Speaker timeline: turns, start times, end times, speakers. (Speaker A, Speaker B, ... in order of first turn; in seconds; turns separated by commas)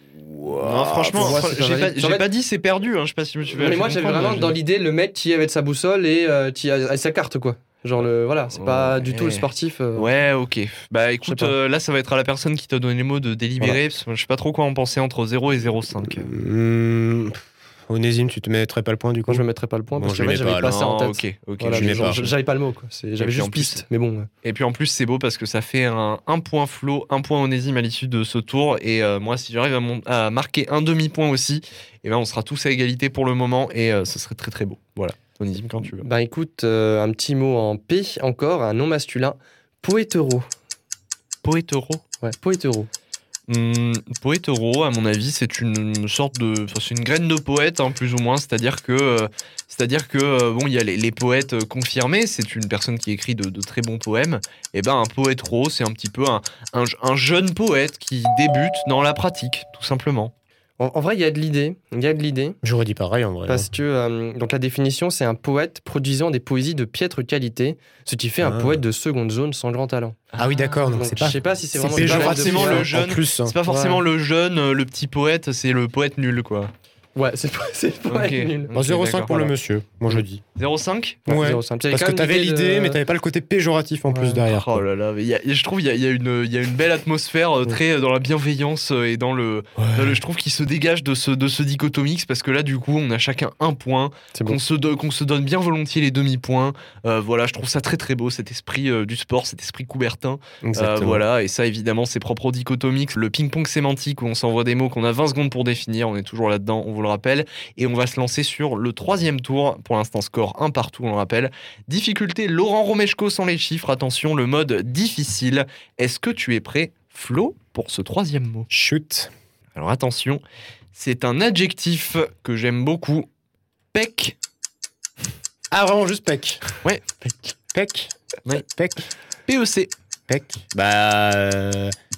Speaker A: 0.2-1.4, Speaker B: 0.6-4.6, Speaker C: 1.1-2.3, Speaker C: 3.5-10.1, Speaker B: 8.5-16.3, Speaker C: 11.2-11.6, Speaker A: 16.0-20.8, Speaker C: 19.3-24.3, Speaker B: 20.6-22.3, Speaker A: 21.7-22.3, Speaker B: 23.2-23.8, Speaker B: 24.4-36.0, Speaker C: 35.8-40.5, Speaker B: 41.4-42.0, Speaker C: 42.2-42.9, Speaker B: 43.5-60.3, Speaker C: 60.8-62.6, Speaker A: 62.6-63.7, Speaker C: 63.5-70.2, Speaker A: 68.4-68.8, Speaker B: 70.3-70.8, Speaker A: 70.3-73.5, Speaker C: 70.9-72.9, Speaker B: 71.9-76.7, Speaker C: 73.6-74.0, Speaker C: 77.1-78.7, Speaker B: 78.1-79.4, Speaker A: 78.7-80.4, Speaker C: 79.2-79.5, Speaker B: 80.5-81.3, Speaker C: 81.3-83.0, Speaker A: 81.3-84.8, Speaker C: 84.1-84.4, Speaker B: 84.4-118.7, Speaker A: 89.8-90.2, Speaker C: 94.3-94.6, Speaker A: 100.6-101.2, Speaker A: 118.7-119.3, Speaker B: 119.7-120.4, Speaker B: 120.9-123.3, Speaker B: 123.9-124.3, Speaker A: 125.7-126.6, Speaker A: 127.3-128.1, Speaker A: 128.6-129.0, Speaker B: 129.5-129.9, Speaker A: 130.3-131.9